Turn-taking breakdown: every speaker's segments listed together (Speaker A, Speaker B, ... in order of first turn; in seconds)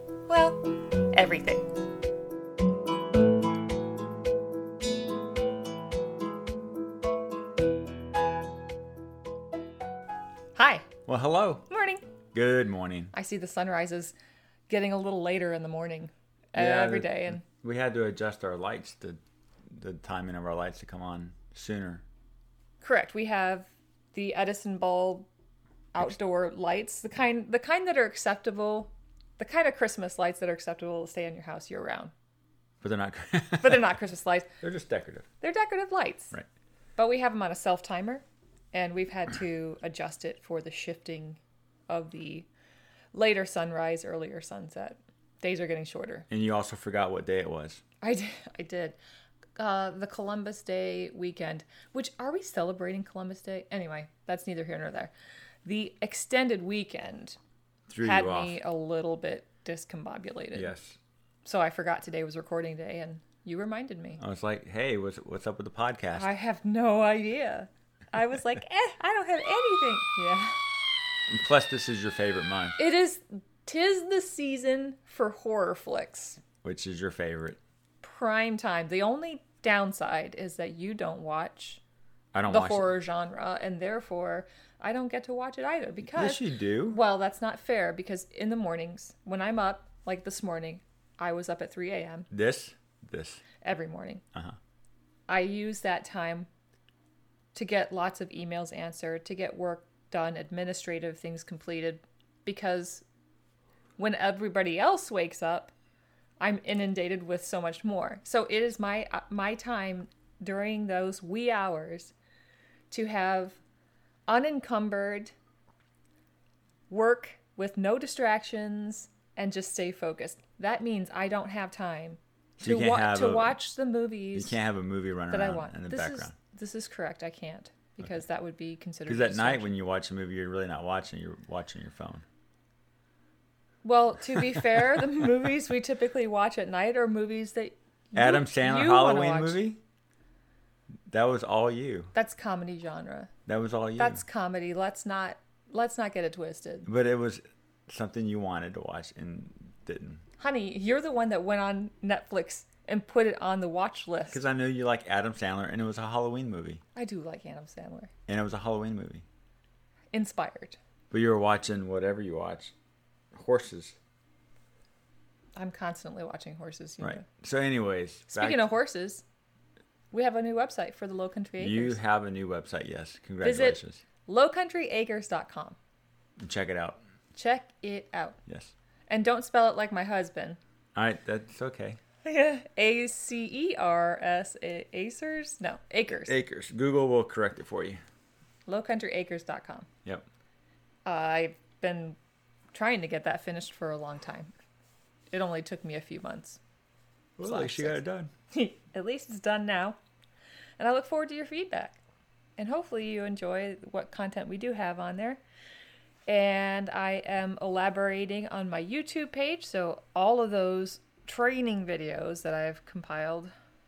Speaker A: 0.3-1.7, 10.6-10.9, 11.7-12.0, 13.1-14.2, 14.7-17.4, 22.8-25.3, 25.9-32.1, 33.6-34.5, 35.4-36.3, 37.0-42.5, 43.1-46.3, 48.0-49.0, 49.6-55.1, 55.6-57.4, 58.0-60.7, 61.5-64.2, 66.2-70.6, 72.8-76.4, 78.0-81.8, 82.5-92.3, 93.6-94.2, 95.3-96.5, 97.5-103.0, 104.0-105.7, 106.4-112.1, 112.9-113.6, 114.3-115.3, 116.9-124.6, 125.3-129.7, 133.8-139.6, 142.1-143.3, 144.0-146.9, 150.4-154.4, 157.0-158.1, 160.1-160.8, 165.6-167.3, 168.3-169.2, 170.1-172.0, 173.4-175.8, 177.3-178.4, 179.1-180.6, 182.2-186.3, 188.7-189.9, 191.1-192.2, 192.7-194.5, 195.3-196.6, 197.4-198.0, 198.5-200.0, 200.8-202.0, 202.6-205.4, 206.3-213.5
Speaker B: 11.1-11.7, 12.3-13.1, 16.6-22.0, 32.8-34.0, 34.6-35.3, 46.3-47.8, 57.9-58.6, 60.5-61.0, 64.2-66.3, 71.3-72.8, 76.6-77.6, 82.3-82.9, 86.1-87.0, 92.3-93.4, 122.6-123.6, 124.3-126.3, 129.1-132.2, 134.6-135.0, 138.2-139.8, 141.1-142.1, 143.5-144.2, 146.8-150.2, 154.3-156.8, 158.3-159.2, 161.1-162.7, 163.3-164.0, 167.0-168.7, 171.6-174.0, 176.4-177.0, 178.5-178.7, 180.9-182.0, 186.3-188.0, 197.4-198.3